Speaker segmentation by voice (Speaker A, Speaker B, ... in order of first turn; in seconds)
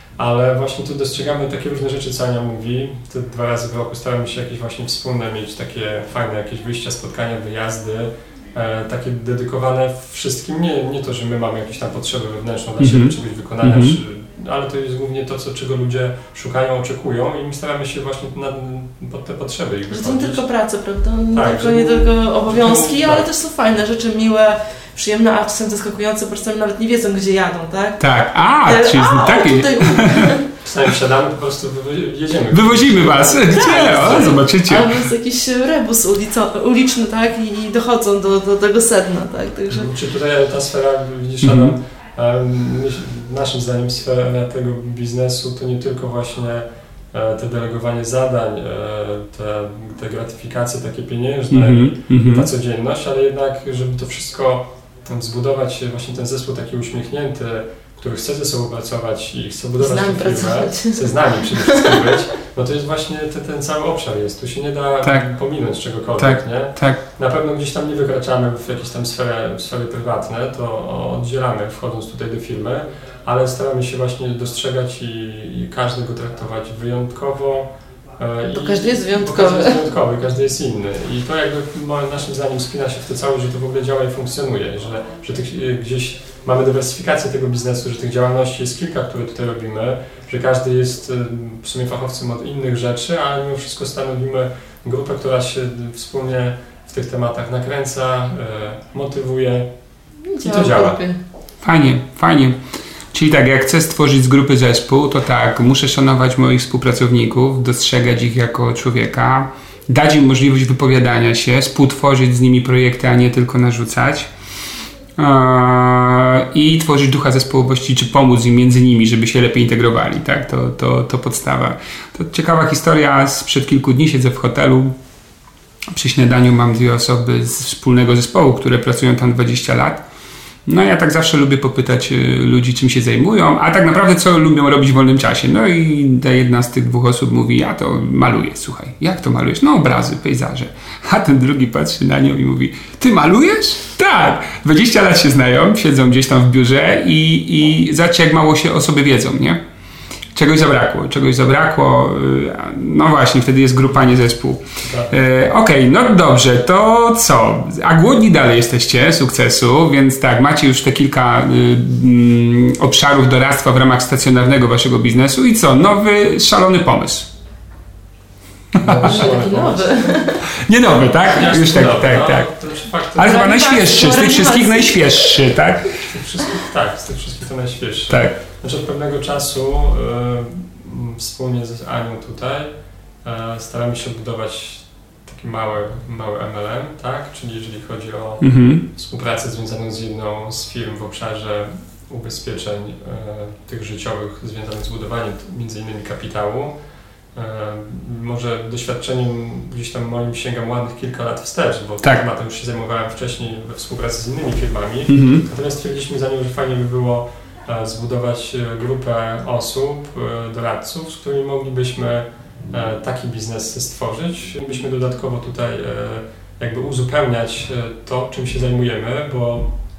Speaker A: 0.2-20.4, 21.3-23.3, 30.6-34.5, 39.7-99.7, 100.4-101.0, 154.8-155.1, 168.8-170.4, 171.0-173.6, 176.0-182.7, 183.2-196.8, 197.3-219.7
Speaker B: 12.8-14.0, 28.0-30.3, 32.5-35.0, 41.4-41.7, 51.5-52.5, 66.2-67.0, 101.6-102.6, 103.1-114.3, 115.2-125.0, 125.9-130.0, 130.7-149.6, 150.3-167.3, 170.5-172.5, 173.1-176.0, 178.1-178.4, 188.4-188.8, 205.1-205.4
Speaker C: 19.9-28.0, 28.6-30.5, 33.5-39.9, 59.8-62.1, 78.5-79.8, 100.3-101.2, 169.0-170.4, 173.2-175.3